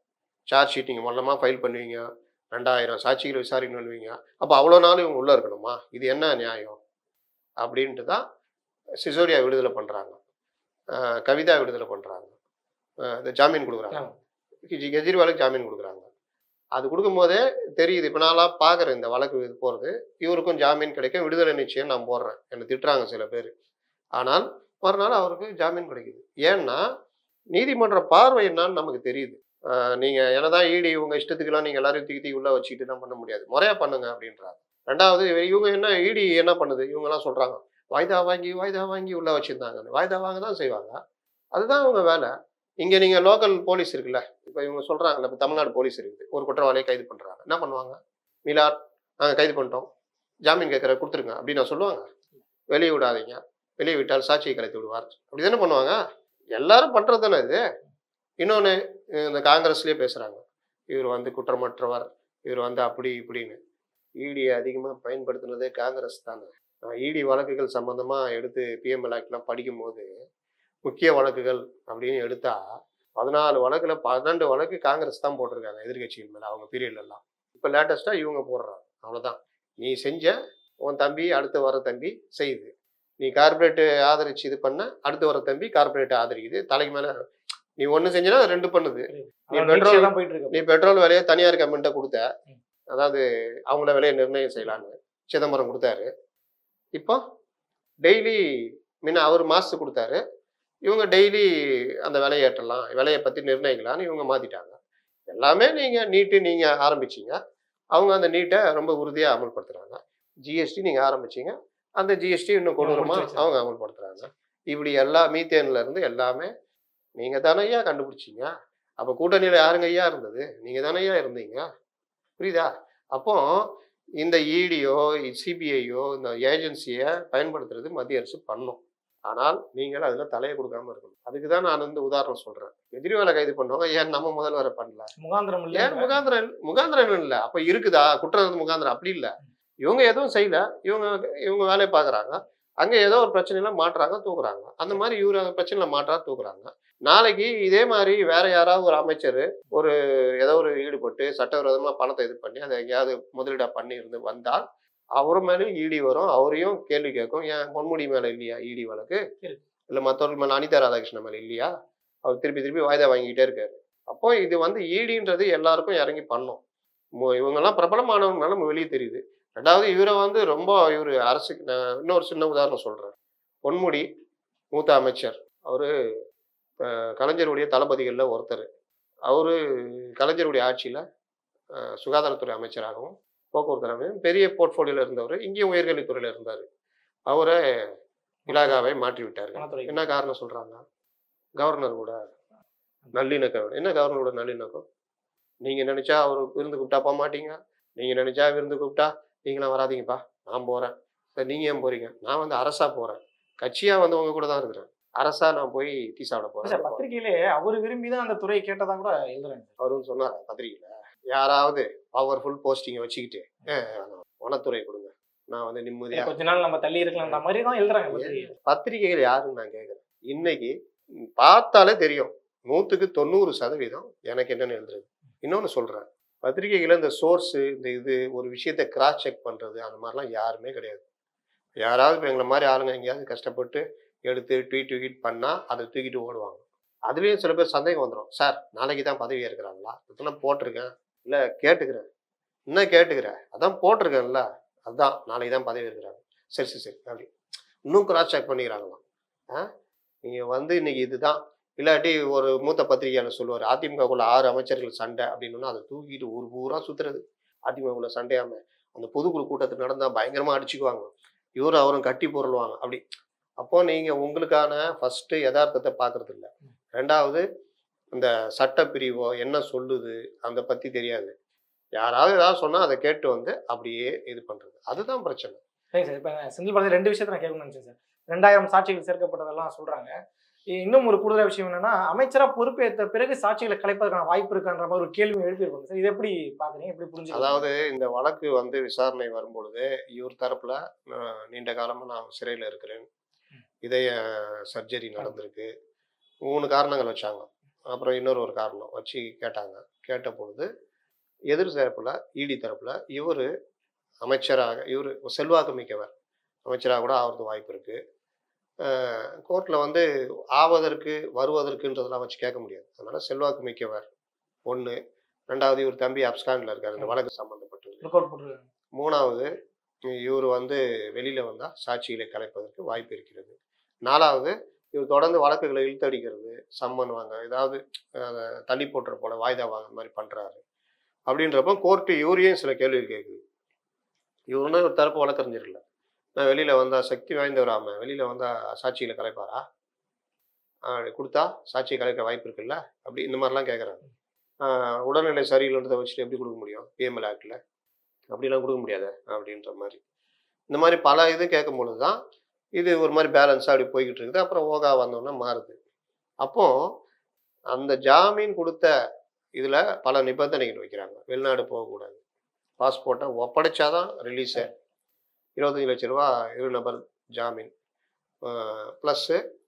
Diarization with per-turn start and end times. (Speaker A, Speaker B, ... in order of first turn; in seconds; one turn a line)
Speaker A: 0.5-6.8
Speaker A: 7.6-8.2
Speaker A: 9.0-10.2
Speaker A: 10.9-12.3
Speaker A: 13.0-14.0
Speaker A: 14.7-16.1
Speaker A: 16.7-23.5
Speaker A: 24.2-26.8
Speaker A: 27.5-41.0
Speaker A: 41.5-49.9
Speaker A: 50.4-52.1
Speaker A: 52.7-56.0
Speaker A: 56.5-57.6
Speaker A: 58.4-63.6
Speaker A: 64.2-70.1
Speaker A: 70.8-72.6
Speaker A: 73.2-87.1
Speaker A: 87.8-92.3
Speaker B: 89.1-90.6
Speaker A: 92.9-96.1
Speaker A: 98.0-98.4
Speaker A: 99.0-100.2
Speaker A: 100.8-101.5
Speaker A: 102.0-104.8
Speaker A: 105.3-107.4
Speaker A: 107.9-116.5
Speaker B: 112.8-113.5
Speaker A: 117.2-121.6
Speaker A: 122.4-123.7
Speaker A: 124.2-135.1
Speaker B: 135.2-136.1
Speaker A: 135.7-154.6
Speaker A: 155.2-159.2
Speaker A: 159.9-161.7
Speaker A: 162.2-166.6
Speaker A: 167.2-174.1
Speaker A: 174.7-175.9
Speaker A: 176.8-178.7
Speaker A: 179.3-181.0
Speaker A: 181.7-186.7
Speaker A: 187.3-187.9
Speaker B: 188.5-188.8
Speaker A: 188.5-190.8
Speaker B: 189.6-190.1
Speaker A: 191.6-192.2
Speaker A: 193.1-194.8
Speaker A: 195.6-207.0
Speaker B: 206.6-209.7
Speaker A: 209.8-216.3
Speaker B: 216.1-218.5
Speaker A: 218.1-231.0
Speaker A: 231.8-242.1
Speaker A: 242.7-247.3
Speaker A: 247.9-249.7
Speaker A: 250.2-263.0
Speaker A: 263.6-267.4
Speaker A: 268.1-271.3
Speaker A: 271.9-275.6
Speaker B: 275.9-280.1
Speaker B: 280.7-287.6
Speaker A: 287.3-293.1
Speaker A: 293.8-295.7
Speaker A: 296.4-300.7
Speaker A: 301.5-303.5
Speaker A: 304.2-306.1
Speaker A: 306.6-308.0
Speaker A: 308.8-314.1
Speaker A: 314.6-315.0
Speaker A: 315.5-318.0
Speaker B: 318.0-318.6
Speaker A: 318.9-319.5
Speaker A: 320.1-330.6
Speaker A: 331.3-333.4
Speaker A: 334.5-335.8
Speaker A: 336.4-339.6
Speaker A: 340.9-344.0
Speaker A: 344.6-347.6
Speaker A: 348.3-350.0
Speaker A: 350.7-352.2
Speaker A: 352.8-355.8
Speaker A: 356.4-356.7
Speaker A: 357.7-358.9
Speaker A: 359.6-362.2
Speaker A: 362.8-364.7
Speaker A: 365.6-367.7
Speaker A: 368.4-369.4